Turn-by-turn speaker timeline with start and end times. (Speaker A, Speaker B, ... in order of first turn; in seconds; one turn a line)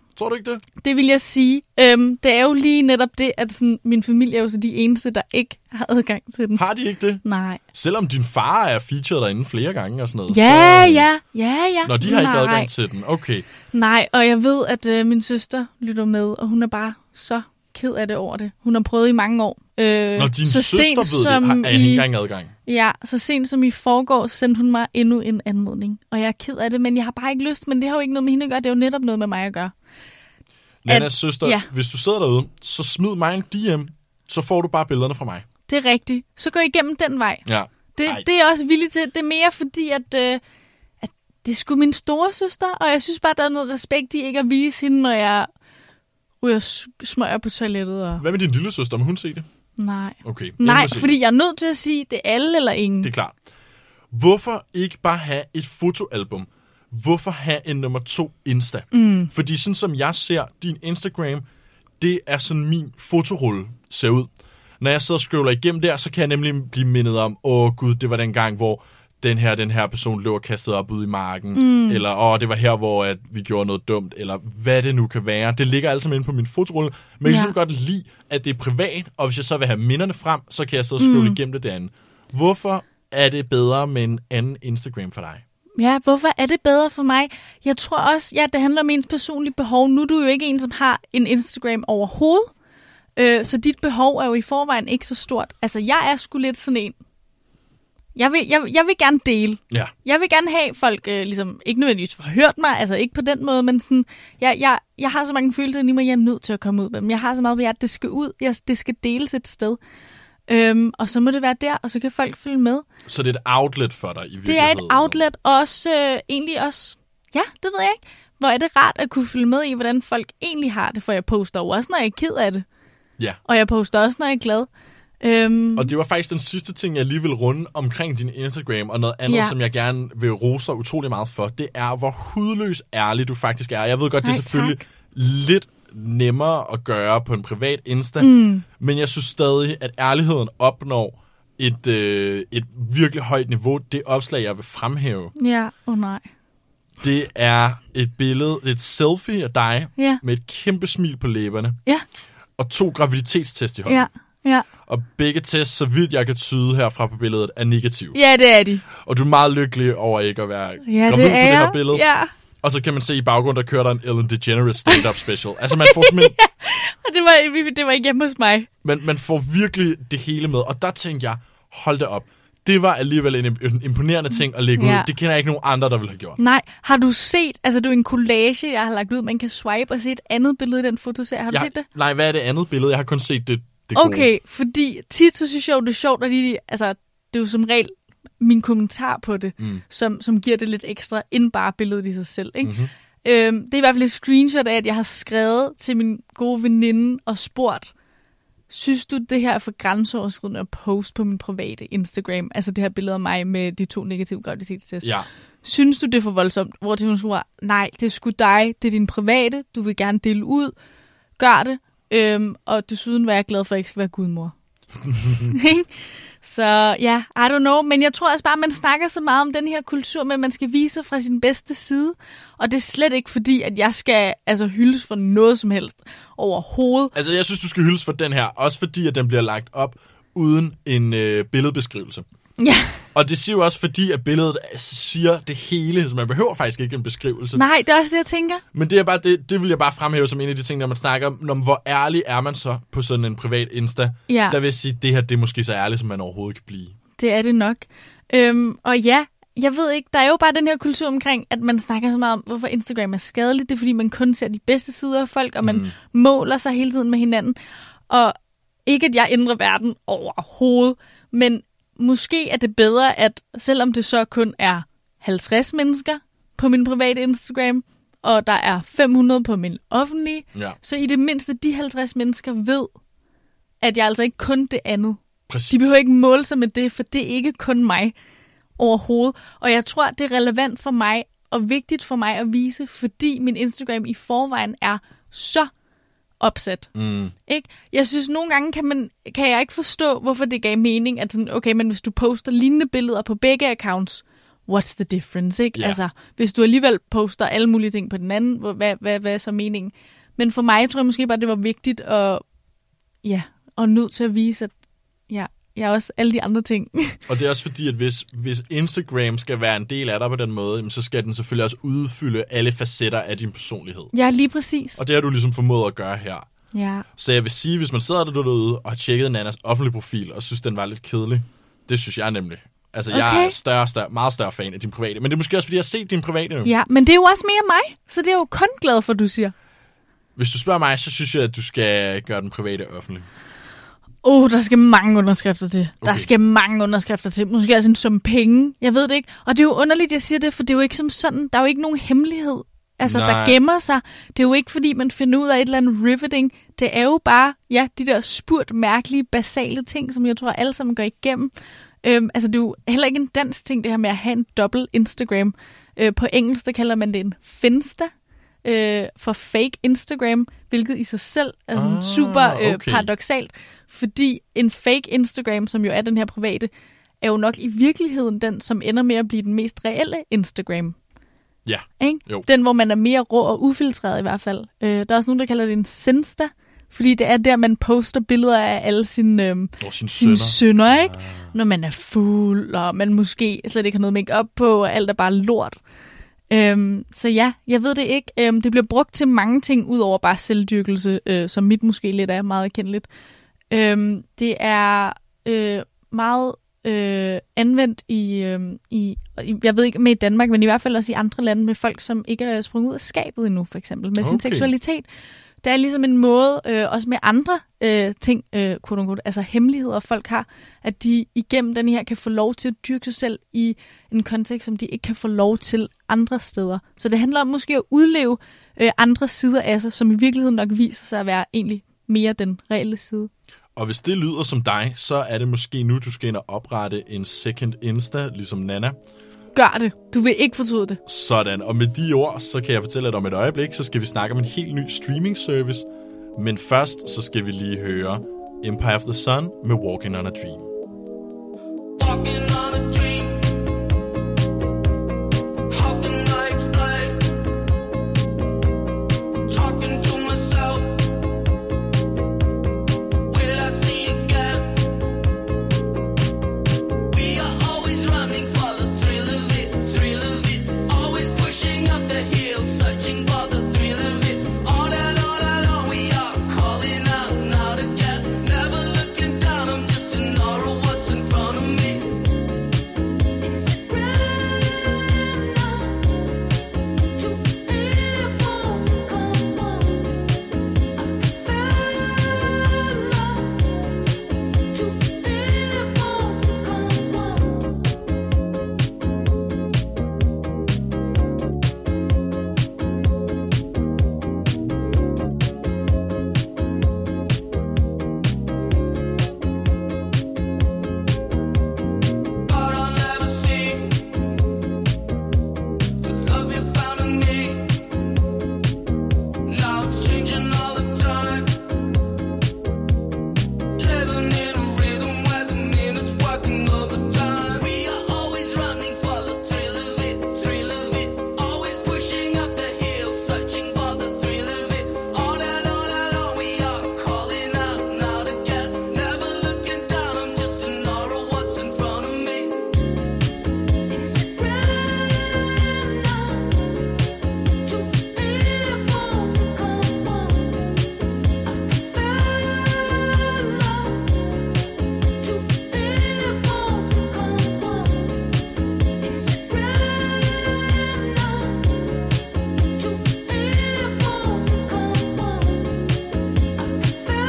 Speaker A: 0.1-0.6
Speaker B: 0.8-6.6
Speaker A: 6.5-11.1
Speaker B: 7.2-7.6
Speaker B: 10.3-12.7
Speaker A: 11.8-13.4
Speaker B: 13.7-22.1
Speaker A: 20.1-22.5
Speaker B: 22.6-29.7
Speaker A: 30.8-35.4
Speaker B: 30.9-31.7
Speaker B: 35.7-37.4
Speaker A: 37.5-38.2
Speaker B: 37.9-40.4
Speaker B: 41.0-45.5
Speaker B: 46.4-48.2
Speaker A: 48.2-49.5
Speaker B: 49.8-53.1
Speaker A: 50.2-51.1
Speaker A: 53.0-53.4
Speaker A: 54.1-61.4
Speaker B: 58.9-59.3
Speaker A: 62.0-64.3
Speaker A: 64.8-85.4
Speaker B: 71.5-72.0
Speaker B: 77.2-77.5
Speaker B: 81.0-81.4
Speaker B: 85.8-92.5
Speaker B: 93.2-97.0
Speaker B: 98.1-109.8
Speaker B: 110.5-112.8
Speaker A: 113.0-115.2
Speaker B: 114.4-122.6
Speaker B: 123.5-124.7
Speaker B: 125.2-125.9
Speaker A: 125.8-145.3
Speaker B: 129.3-129.5
Speaker B: 134.2-134.8
Speaker B: 138.2-138.7
Speaker B: 145.4-146.2
Speaker A: 147.0-151.8
Speaker A: 152.6-154.1
Speaker B: 153.8-154.7
Speaker A: 154.8-158.2
Speaker B: 158.1-158.8
Speaker A: 158.9-162.1
Speaker B: 160.8-162.3
Speaker A: 162.6-166.3
Speaker B: 165.7-168.7
Speaker A: 168.8-176.4
Speaker B: 174.8-175.1
Speaker B: 176.4-181.8
Speaker A: 181.5-184.3
Speaker B: 183.9-197.9
Speaker A: 189.6-189.8
Speaker A: 192.6-192.9
Speaker B: 198.7-205.1
Speaker B: 205.6-210.7
Speaker B: 211.4-214.5
Speaker A: 215.1-215.6
Speaker B: 215.5-215.9
Speaker B: 216.4-227.1
Speaker A: 227.1-232.2
Speaker B: 232.6-233.0
Speaker A: 233.1-237.6
Speaker B: 237.5-238.6
Speaker A: 238.7-246.9
Speaker B: 244.3-244.6
Speaker B: 247.2-257.6
Speaker A: 255.6-255.9
Speaker B: 258.1-258.3
Speaker B: 258.9-272.9
Speaker B: 273.8-278.1
Speaker A: 275.5-275.9
Speaker B: 278.8-285.7
Speaker B: 286.4-286.9
Speaker A: 286.9-287.3
Speaker B: 287.5-302.4
Speaker B: 303.2-304.7
Speaker B: 305.3-307.2
Speaker A: 307.3-314.1
Speaker B: 314.1-315.0
Speaker A: 315.0-316.5
Speaker B: 316.7-317.1
Speaker A: 317.2-326.7
Speaker B: 323.1-323.6
Speaker B: 326.6-329.5
Speaker A: 330.4-333.3
Speaker B: 334.2-351.5
Speaker A: 336.0-336.3
Speaker A: 343.0-343.6
Speaker B: 352.0-358.1
Speaker B: 358.6-366.7
Speaker A: 361.7-363.1
Speaker B: 367.2-370.9
Speaker A: 371.6-372.5
Speaker B: 372.0-385.8
Speaker A: 379.8-381.5
Speaker B: 386.5-393.1
Speaker B: 393.7-405.0
Speaker A: 404.2-404.7
Speaker B: 405.6-423.3
Speaker A: 423.8-429.0
Speaker B: 429.5-431.0
Speaker A: 431.1-440.6
Speaker C: 442.0-443.6
Speaker C: 445.7-447.3
Speaker C: 449.5-451.1
Speaker C: 453.3-454.9
Speaker C: 457.1-472.3
Speaker C: 502.4-504.1
Speaker C: 506.0-507.9
Speaker C: 509.4-511.6
Speaker C: 513.8-532.7